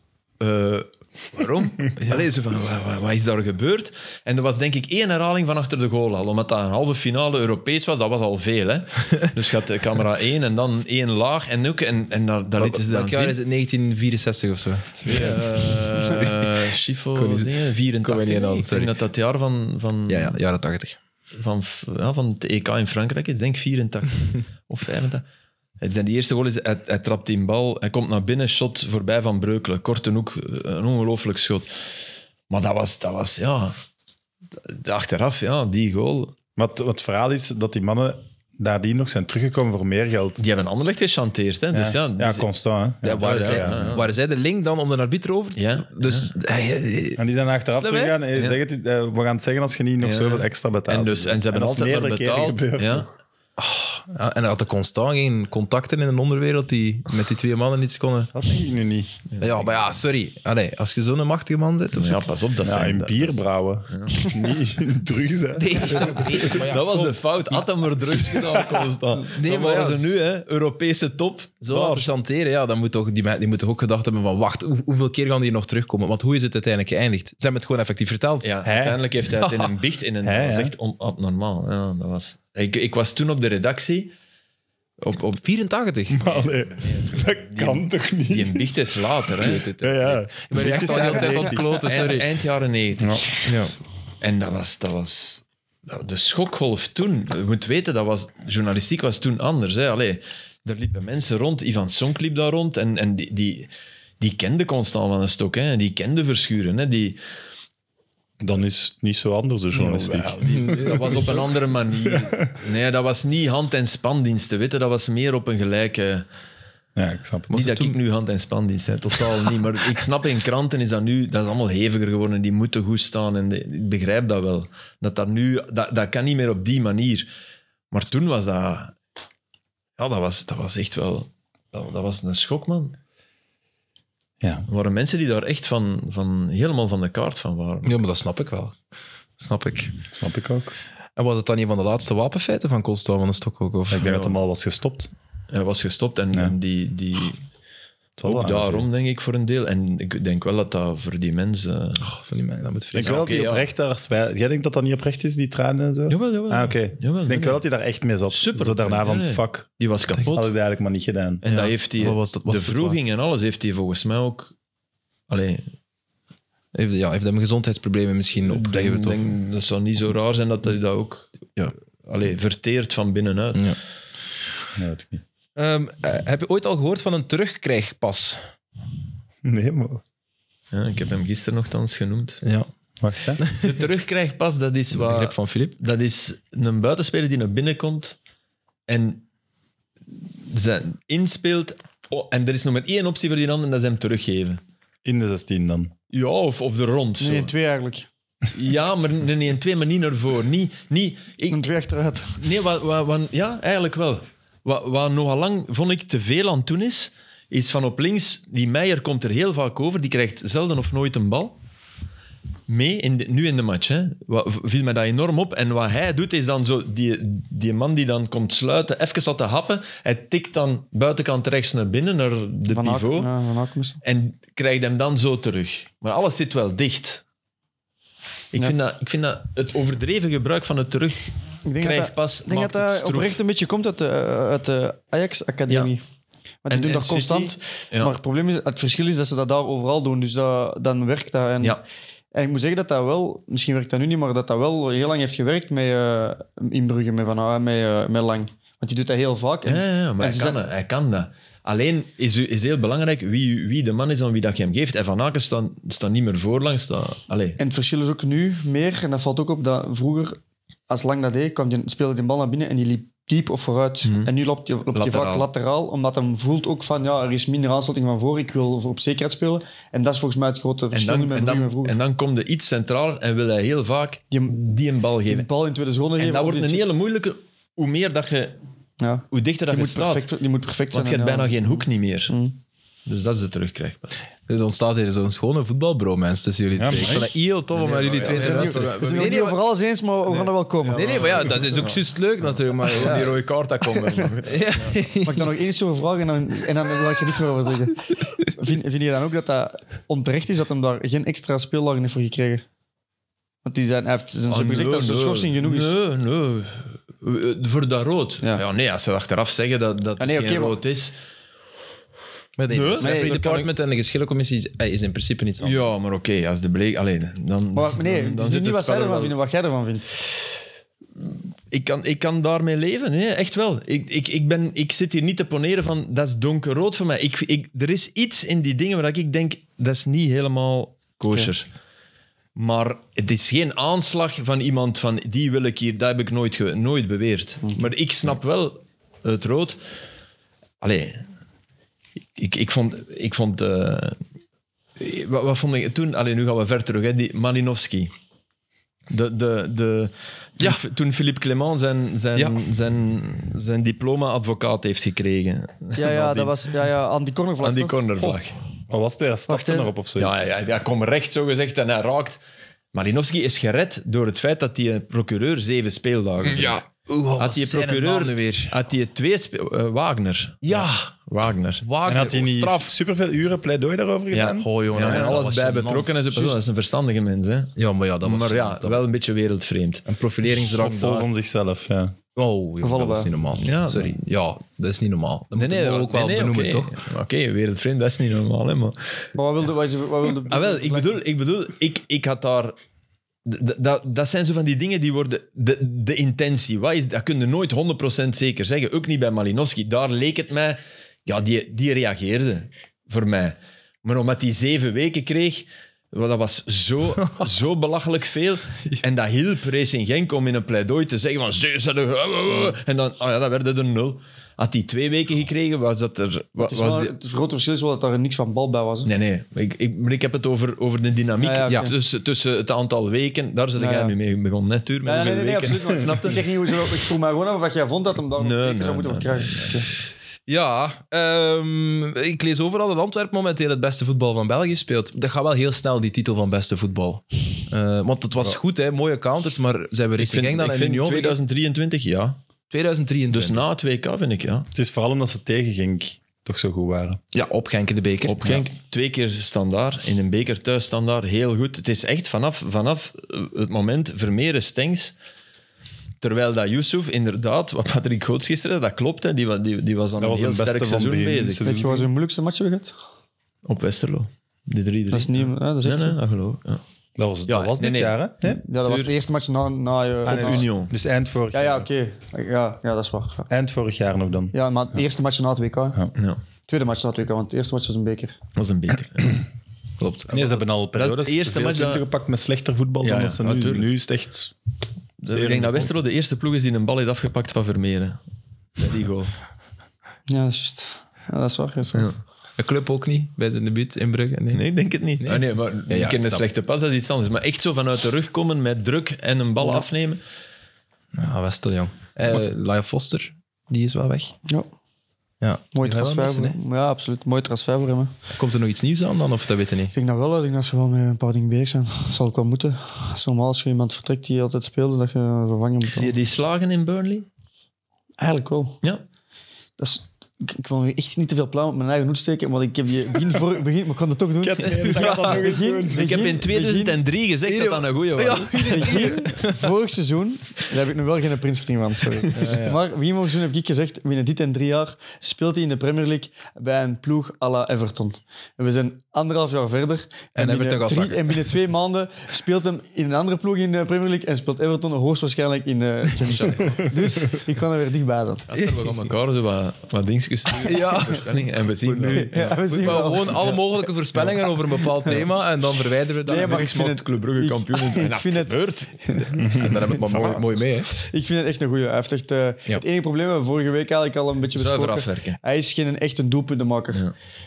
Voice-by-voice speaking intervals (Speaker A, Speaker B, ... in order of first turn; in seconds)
Speaker A: 0.4-13.4, 15.1-20.4, 21.4-25.2, 25.8-31.7, 32.5-33.8, 34.6-36.4, 40.4-42.5, 43.2-44.1, 45.6-46.3, 48.3-48.6, 50.0-53.1, 59.3-59.9, 61.9-64.3, 66.2-72.1, 78.4-84.1, 85.0-85.4, 86.3-89.7, 90.8-93.5, 94.2-107.2, 109.8-116.2, 117.5-127.3, 127.9-128.9, 130.0-133.0, 134.7-138.0, 144.0-144.3, 145.5-147.4, 148.2-152.1, 153.0-153.6, 156.1-157.6, 158.3-160.5, 161.4-164.5, 165.3-165.7, 168.4-171.3, 172.1-173.7, 180.7-182.4, 183.6-188.2, 188.9-189.2, 190.4-194.6, 196.1-197.5, 198.5-201.7, 202.3-211.6, 212.7-223.3, 224.0-227.2, 228.5-233.4, 236.7-238.2, 249.7-257.6, 264.0-264.3, 264.9-265.5, 270.9-275.5, 276.2-278.6, 279.3-280.3, 280.9-282.4, 283.1-284.2, 287.7-289.5, 290.3-295.0, 304.5-311.1, 312.7-313.7, 315.6-319.4, 321.7-331.7, 332.6-339.8, 340.8-341.3, 342.4-344.2, 345.0-348.1, 349.1-356.7, 357.6-358.6, 360.2-362.4, 362.9-366.8, 367.4-371.9, 374.3-380.1, 383.6-384.2, 385.5-389.0, 390.5-392.8, 393.5-417.1, 419.1-426.5, 428.4-429.8, 440.2-442.4, 443.3-444.7, 448.2-455.1, 456.2-461.6, 463.6-466.8, 467.5-469.1, 470.3-470.9, 476.1-476.4, 478.6-479.5, 480.9-482.1, 483.0-483.9, 485.2-488.2, 488.8-489.3, 491.9-492.2, 494.5-500.2, 515.9-517.3, 525.9-529.0, 548.5-553.5, 556.3-559.5, 560.0-560.4, 564.5-565.4
Speaker B: 12.6-16.6, 17.1-17.5, 18.0-18.9, 20.1-21.0, 43.0-47.2, 47.7-48.2, 53.6-58.3, 59.4-62.3, 65.6-67.6, 69.3-70.2, 71.6-78.6, 79.4-79.7, 85.4-86.2, 89.4-92.3, 93.5-93.7, 110.0-111.5, 117.5-118.0, 137.8-138.8, 139.4-139.9, 141.2-144.2, 152.0-153.5, 161.4-163.0, 166.7-169.2, 175.6-178.4, 182.4-182.7, 183.4-183.8, 184.9-185.8, 284.5-289.6, 290.9-293.4, 294.5-295.5, 312.6-315.9, 352.4-352.6, 366.4-368.8, 370.6-371.1, 371.8-372.9, 374.6-376.6, 377.8-379.0, 380.1-381.3, 382.4-387.0, 430.5-441.4, 442.7-443.6, 447.3-448.7, 480.0-480.6, 492.6-494.6, 495.2-496.4, 501.1-504.3, 505.4-506.6, 508.3-509.9, 525.0-525.4, 527.5-529.7, 532.3-532.8, 540.4-541.5, 548.6-548.9, 550.5-551.4, 552.1-556.6, 559.4-560.9
Speaker C: 15.1-15.3, 36.6-40.4, 41.7-44.0, 47.2-53.1, 58.3-59.2, 62.6-66.6, 68.6-68.8, 78.7-79.0, 80.2-80.7, 86.1-88.7, 89.4-91.8, 93.0-93.2, 108.4-110.4, 117.0-117.5, 134.4-134.7, 140.1-140.8, 143.9-145.1, 148.2-148.9, 152.9-159.7, 160.3-161.4, 174.8-175.2, 179.4-180.0, 183.0-183.4, 195.1-195.9, 286.8-287.3, 358.9-360.5, 372.1-375.4, 380.7-382.2, 444.7-447.2, 460.2-462.1, 467.2-468.6, 470.2-471.9, 473.5-474.6, 480.3-484.5, 485.3-485.9, 524.4-526.3, 559.4-559.8
Speaker D: 197.2-198.1, 201.5-202.4, 222.7-224.0, 231.7-236.0, 236.7-241.8, 242.3-250.6, 257.6-272.0, 274.3-274.6, 275.3-276.9, 279.0-282.6, 288.2-291.6, 294.0-294.3, 295.2-302.6, 303.6-305.9, 310.2-310.8, 313.0-313.7, 317.7-320.1, 355.9-358.4, 359.5-359.9, 382.8-383.3, 389.3-391.2, 416.6-419.1, 421.4-421.9, 423.8-424.1, 425.1-429.9, 461.6-462.9, 465.1-466.2, 468.4-470.7, 471.5-473.5, 474.5-476.0, 476.7-478.4, 490.3-492.1, 499.6-499.9, 505.7-508.1, 509.9-516.1, 518.2-518.8, 519.8-527.0, 528.5-548.5, 552.0-553.6, 556.2-559.9, 560.9-567.0